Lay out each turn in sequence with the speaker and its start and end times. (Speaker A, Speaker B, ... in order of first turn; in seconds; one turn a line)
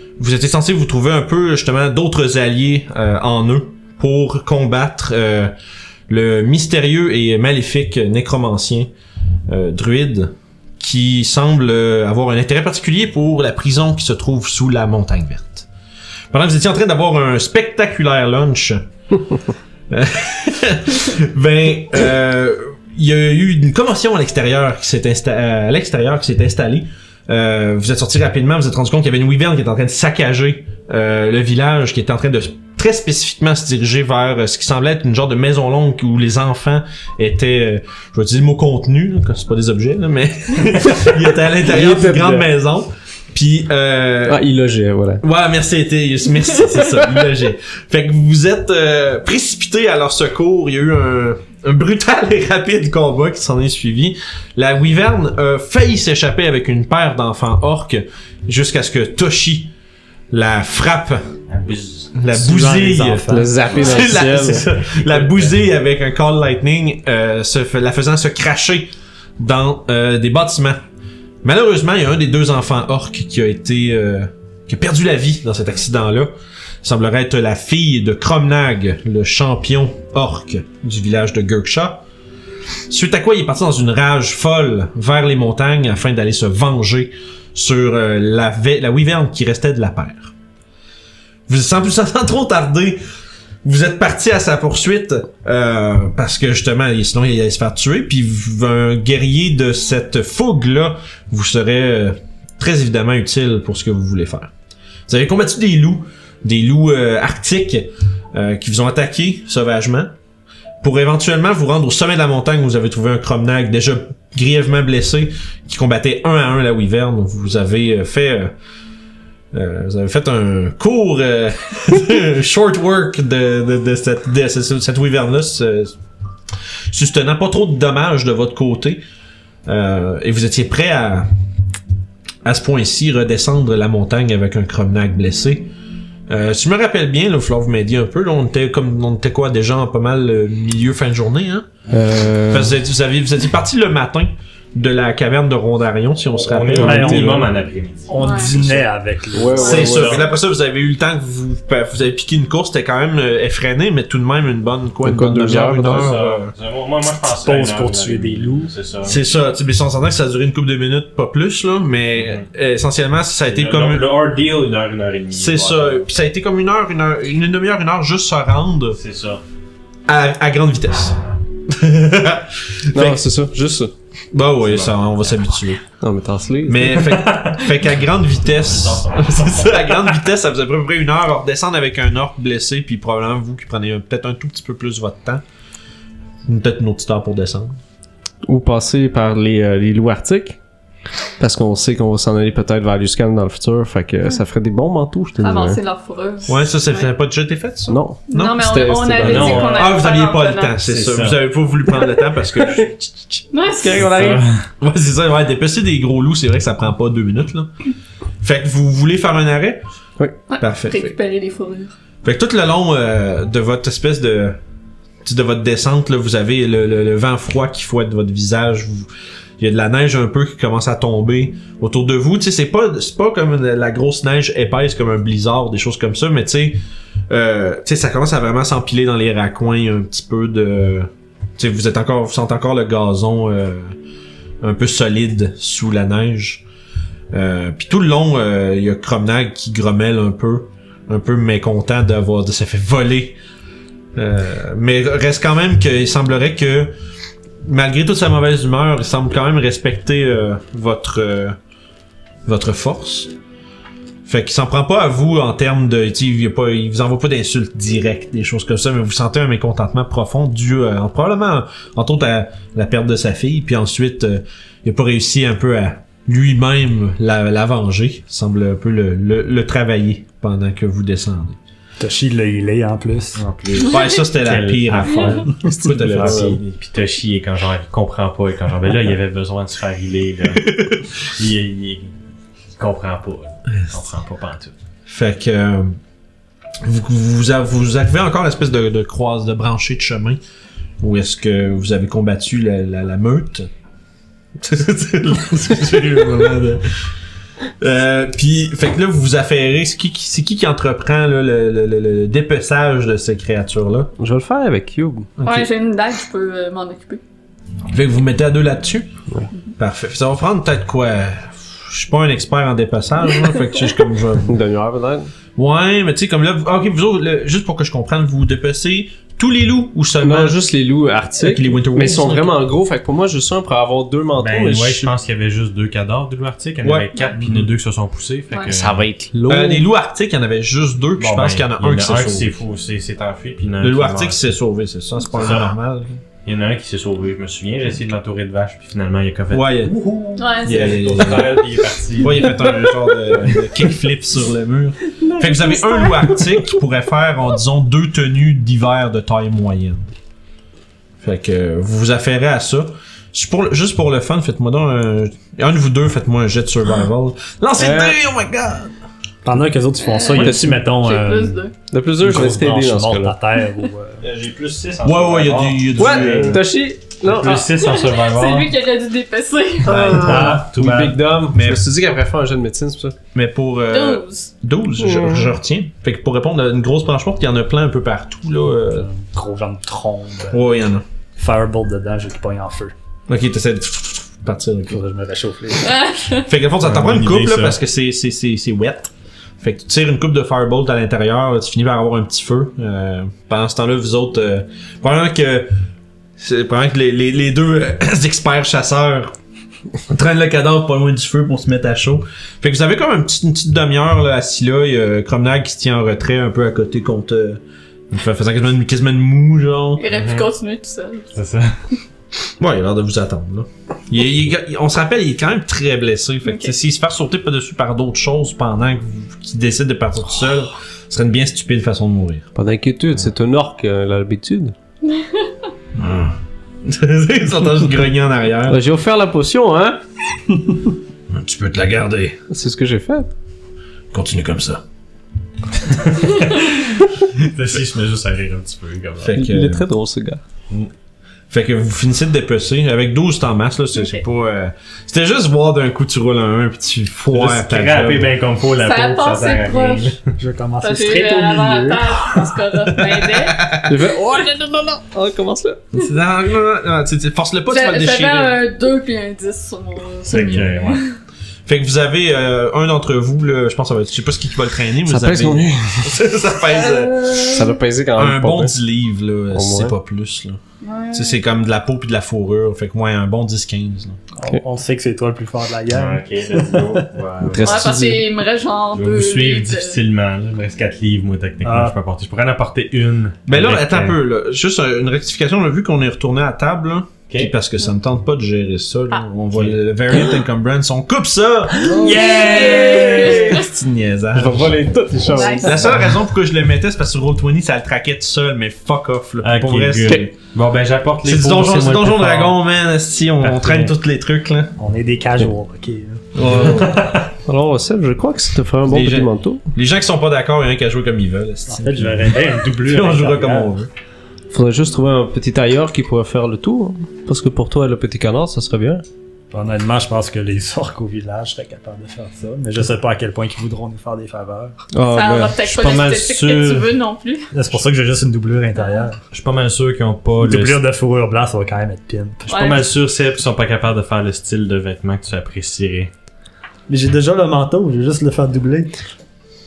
Speaker A: 0.2-5.5
Speaker A: 6.1-8.9
Speaker A: 9.5-15.7
Speaker A: 16.3-18.8
Speaker A: 19.9-44.4
Speaker B: 41.6-42.5
Speaker B: 44.3-45.2
Speaker A: 45.2-59.7
Speaker B: 46.8-47.1
Speaker A: 60.3-61.3
Speaker C: 61.5-62.1
Speaker A: 62.1-70.8
Speaker D: 62.3-63.8
Speaker B: 63.3-64.7
Speaker C: 64.8-65.5
Speaker A: 71.4-76.3
Speaker A: 76.8-82.0
Speaker A: 82.9-90.3
Speaker A: 91.5-93.0
Speaker A: 93.6-104.5
Speaker A: 105.1-110.1
Speaker A: 110.8-118.5
Speaker A: 119.5-125.9
Speaker A: 126.9-129.0
Speaker A: 129.7-131.3
Speaker A: 132.4-135.7
Speaker A: 136.3-141.7
Speaker B: 141.9-142.8
Speaker A: 142.5-147.5
Speaker C: 146.3-148.8
Speaker D: 146.7-147.5
Speaker D: 148.1-149.9
Speaker E: 148.2-148.5
Speaker B: 149.3-150.2
Speaker E: 149.5-149.9
Speaker A: 149.6-156.5
Speaker C: 149.7-150.2
Speaker B: 155.0-156.2
Speaker C: 155.8-159.2
Speaker D: 157.2-158.7
Speaker A: 159.0-164.1
Speaker C: 162.2-162.4
Speaker C: 163.5-166.1
Speaker A: 165.4-169.0
Speaker C: 169.0-169.4
Speaker A: 170.1-171.2
Speaker A: 171.7-173.2
Speaker B: 172.9-173.9
Speaker A: 174.3-175.8
Speaker C: 174.6-175.0
Speaker B: 176.0-177.2
Speaker A: 176.7-185.4
Speaker C: 178.7-180.2
Speaker A: 186.5-187.8
Speaker B: 188.4-190.6
Speaker B: 191.4-195.8
Speaker E: 195.4-197.1
Speaker A: 196.5-198.8
Speaker B: 197.9-199.8
Speaker E: 198.3-200.8
Speaker C: 199.2-200.0
Speaker A: 199.6-203.5
Speaker C: 200.8-201.4
Speaker E: 203.5-204.4
Speaker B: 203.8-204.5
Speaker C: 204.1-204.6
Speaker A: 204.8-207.7
Speaker A: 208.4-209.8
Speaker E: 210.5-211.9
Speaker A: 210.6-211.2
Speaker A: 212.2-214.6
Speaker A: 215.2-233.9
Speaker A: 234.6-236.6
Speaker A: 237.3-243.4
Speaker A: 244.2-246.9
Speaker A: 247.6-251.6
Speaker A: 252.5-253.3
Speaker A: 254.2-271.6
Speaker D: 272.0-273.4
Speaker C: 273.4-282.1
Speaker A: 273.8-276.6
Speaker B: 276.0-276.6
Speaker A: 280.6-281.0
Speaker C: 282.8-284.7
Speaker A: 285.1-286.0
Speaker A: 286.8-290.4
Speaker A: 291.0-293.7
Speaker A: 294.6-296.9
Speaker A: 297.8-304.1
Speaker B: 304.2-305.3
Speaker A: 305.4-305.7
Speaker E: 305.4-307.2
Speaker A: 307.9-309.1
Speaker A: 309.8-314.5
Speaker B: 314.4-315.3
Speaker A: 315.6-320.6
Speaker B: 320.2-325.1
Speaker A: 321.4-322.6
Speaker C: 324.4-329.1
Speaker A: 326.8-327.7
Speaker B: 328.7-329.9
Speaker A: 329.5-332.5
Speaker C: 331.2-334.4
Speaker A: 333.8-336.2
Speaker C: 335.3-335.7
Speaker C: 336.4-342.7
Speaker A: 339.5-340.0
Speaker E: 340.4-341.1
Speaker A: 340.6-350.0
Speaker A: 351.2-358.9
Speaker B: 357.8-358.2
Speaker D: 359.4-361.6
Speaker E: 360.0-361.7
Speaker B: 360.3-360.8
Speaker B: 361.9-363.4
Speaker D: 362.2-364.2
Speaker C: 364.2-366.6
Speaker A: 365.0-366.6
Speaker B: 366.0-367.7
Speaker C: 367.2-368.7
Speaker E: 367.8-370.2
Speaker B: 369.8-373.2
Speaker A: 369.9-371.9
Speaker D: 370.2-370.7
Speaker C: 370.3-371.1
Speaker A: 373.3-379.1
Speaker E: 373.9-374.5
Speaker B: 375.0-375.5
Speaker D: 378.9-380.6
Speaker A: 380.5-381.0
Speaker D: 381.4-382.9
Speaker A: 383.3-385.0
Speaker D: 384.9-386.0
Speaker E: 385.8-386.5
Speaker A: 386.5-395.7
Speaker C: 386.8-387.8
Speaker A: 396.4-399.3
Speaker A: 400.1-410.0
Speaker E: 410.0-411.3
Speaker C: 410.1-410.5
Speaker C: 411.4-411.8
Speaker A: 412.6-422.5
Speaker E: 416.4-416.7
Speaker B: 422.6-424.8
Speaker E: 425.1-425.4
Speaker A: 426.0-426.3
Speaker A: 426.9-428.8
Speaker B: 428.7-430.0
Speaker A: 431.3-432.4
Speaker B: 432.5-433.3
Speaker A: 434.1-434.8
Speaker C: 436.1-439.4
Speaker A: 439.2-439.9
Speaker B: 439.3-440.4
Speaker A: 441.5-448.3
Speaker C: 447.3-450.2
Speaker E: 448.8-450.1
Speaker D: 450.4-452.1
Speaker E: 450.8-453.8
Speaker A: 452.9-453.9
Speaker B: 453.9-455.8
Speaker A: 455.9-458.6
Speaker E: 457.7-461.1
Speaker C: 460.3-461.0
Speaker A: 461.7-467.6
Speaker B: 465.1-466.2
Speaker E: 467.0-467.4
Speaker B: 467.4-468.8
Speaker A: 468.2-470.6
Speaker B: 469.5-469.9
Speaker E: 470.8-471.4
Speaker A: 471.1-474.2
Speaker D: 474.4-477.0
Speaker C: 475.9-478.0
Speaker B: 477.5-478.3
Speaker E: 477.6-480.0
Speaker C: 478.9-484.2
Speaker D: 481.6-481.9
Speaker A: 483.5-494.9
Speaker C: 487.3-487.5
Speaker B: 491.9-493.5
Speaker C: 491.9-493.4
Speaker E: 492.2-493.6
Speaker B: 494.3-496.0
Speaker E: 495.3-495.9
Speaker A: 495.6-500.4
Speaker C: 499.4-502.6
Speaker A: 501.2-504.8
Speaker C: 503.4-503.9
Speaker D: 504.8-506.7
Speaker A: 506.4-507.1
Speaker C: 506.5-507.3
Speaker B: 507.4-509.6
Speaker A: 508.9-513.9
Speaker D: 511.7-513.7
Speaker B: 514.5-519.0
Speaker D: 519.5-524.8
Speaker B: 524.9-525.6
Speaker E: 525.1-527.5
Speaker C: 525.6-526.9
Speaker D: 527.5-529.2
Speaker C: 529.3-530.8
Speaker D: 530.4-532.6
Speaker E: 532.5-532.9
Speaker C: 532.5-536.1
Speaker D: 536.9-539.0